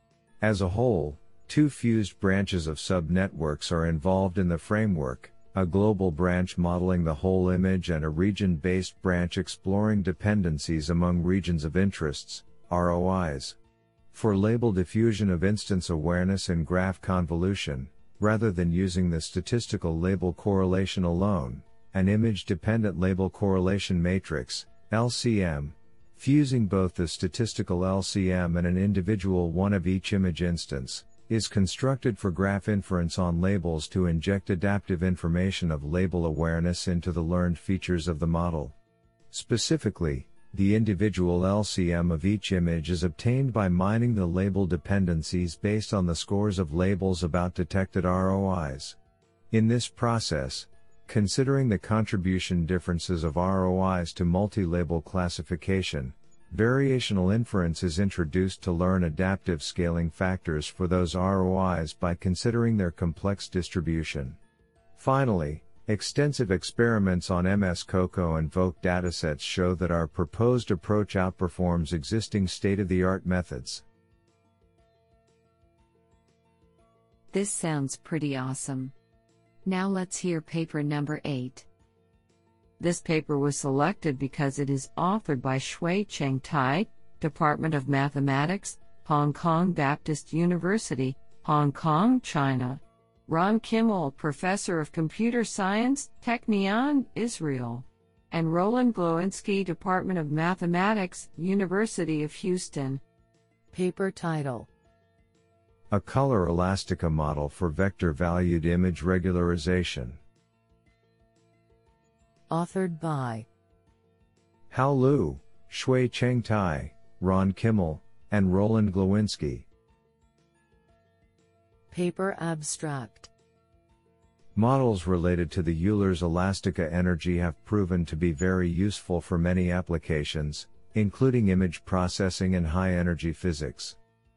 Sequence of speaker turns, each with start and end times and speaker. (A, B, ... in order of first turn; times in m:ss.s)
0:00.4-0:13.6 A
0:14.1-0:38.8 A
0:39.3-0:49.0 A
0:49.5-1:04.4 A
1:05.0-1:13.8 A
1:17.3-1:18.9 B
1:19.6-1:21.6 B
1:22.8-1:43.0 B
1:43.7-1:44.7 C
1:45.9-1:50.2 A
1:52.5-1:53.5 C
1:54.7-1:59.7 A
2:01.9-2:03.3 C
2:04.6-2:14.0 A